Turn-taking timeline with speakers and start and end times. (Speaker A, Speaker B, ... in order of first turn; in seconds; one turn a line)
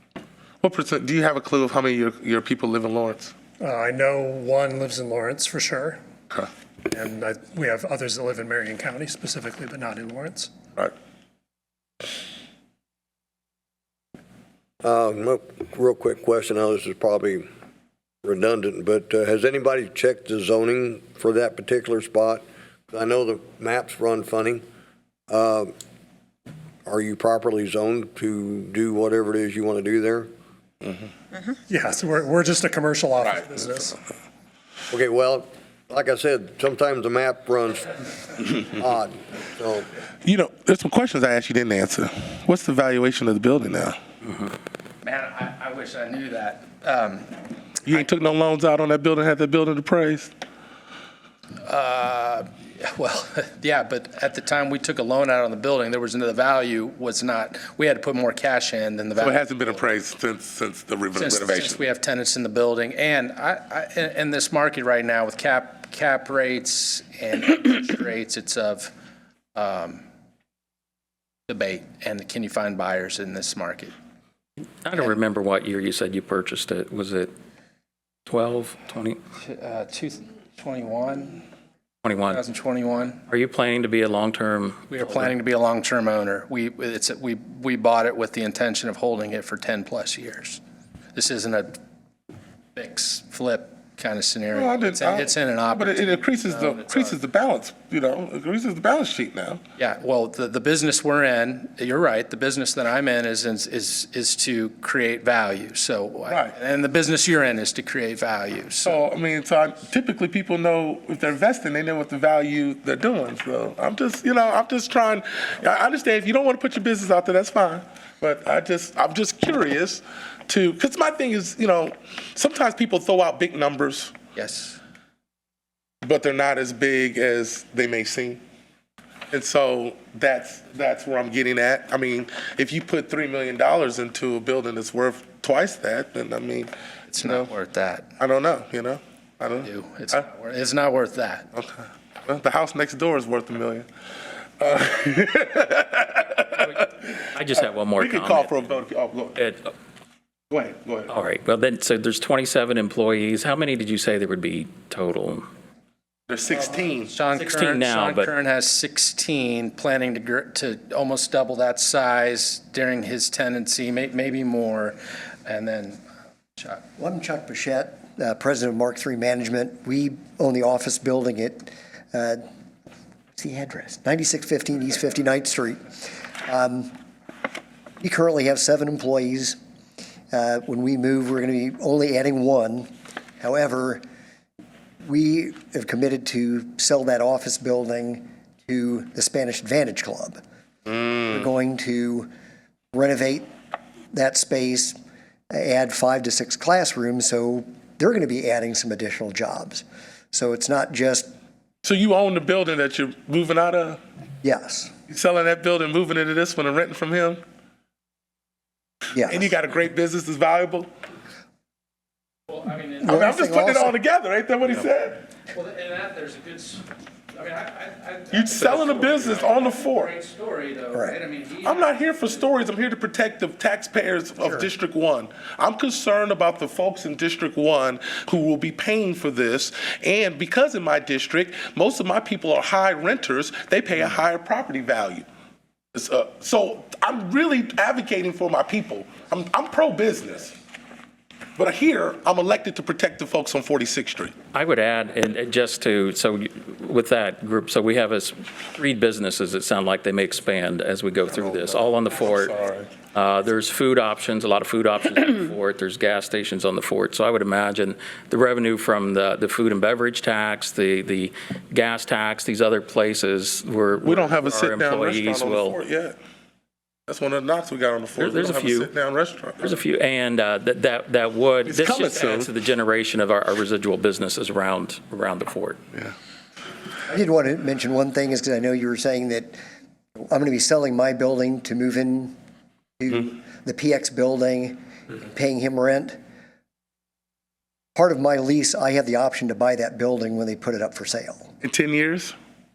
Speaker A: 0.6-3.3
Speaker B: 3.6-6.0
Speaker B: 6.9-10.5
Speaker C: 14.8-17.5
Speaker C: 18.2-24.6
Speaker C: 25.3-25.7
Speaker C: 26.9-30.3
Speaker B: 31.7-34.0
Speaker C: 34.9-39.9
Speaker A: 40.2-44.0
Speaker D: 45.0-48.1
Speaker A: 47.9-50.3
Speaker D: 51.6-59.9
Speaker A: 59.2-61.8
Speaker D: 61.1-68.9
Speaker D: 69.5-70.0
Speaker D: 71.5-73.9
Speaker E: 74.8-77.3
Speaker E: 78.3-79.2
Speaker D: 79.4-81.4
Speaker E: 82.0-82.4
Speaker D: 82.3-83.2
Speaker E: 83.3-85.3
Speaker D: 84.9-90.6
Speaker D: 91.1-91.8
Speaker D: 92.8-97.2
Speaker A: 94.5-99.6
Speaker D: 99.8-109.0
Speaker A: 106.3-106.5
Speaker A: 108.8-124.2
Speaker D: 124.4-124.8
Speaker A: 126.0-128.4
Speaker A: 129.3-137.5
Speaker D: 137.1-138.1
Speaker A: 138.2-140.3
Speaker D: 139.6-141.5
Speaker A: 141.6-143.9
Speaker A: 144.6-147.1
Speaker E: 146.6-148.5
Speaker A: 147.9-149.4
Speaker E: 149.4-149.7
Speaker A: 150.5-151.1
Speaker E: 151.1-155.5
Speaker A: 156.3-157.1
Speaker D: 156.5-166.0
Speaker E: 157.3-158.3
Speaker F: 167.0-172.4
Speaker F: 173.3-176.9
Speaker F: 178.0-179.6
Speaker F: 180.3-182.9
Speaker F: 183.4-184.0
Speaker F: 185.0-190.4
Speaker F: 191.0-192.3
Speaker F: 192.9-193.5
Speaker F: 194.1-195.0
Speaker F: 195.5-201.3
Speaker A: 201.8-204.0
Speaker F: 204.4-204.9
Speaker A: 205.1-207.4
Speaker F: 209.1-209.5
Speaker A: 209.2-210.9
Speaker D: 212.5-213.3
Speaker F: 213.0-213.9
Speaker A: 213.1-215.2
Speaker D: 215.5-222.4
Speaker A: 218.3-220.2
Speaker A: 221.6-235.2
Speaker A: 235.9-240.6
Speaker A: 241.6-244.3
Speaker E: 244.5-265.8
Speaker A: 251.5-252.9
Speaker A: 264.0-266.2
Speaker A: 267.1-269.8
Speaker E: 268.2-268.9
Speaker E: 269.6-275.8
Speaker A: 271.7-272.5
Speaker F: 277.1-279.6
Speaker F: 280.3-282.4
Speaker F: 283.0-286.2
Speaker F: 288.0-291.5
Speaker A: 291.6-292.4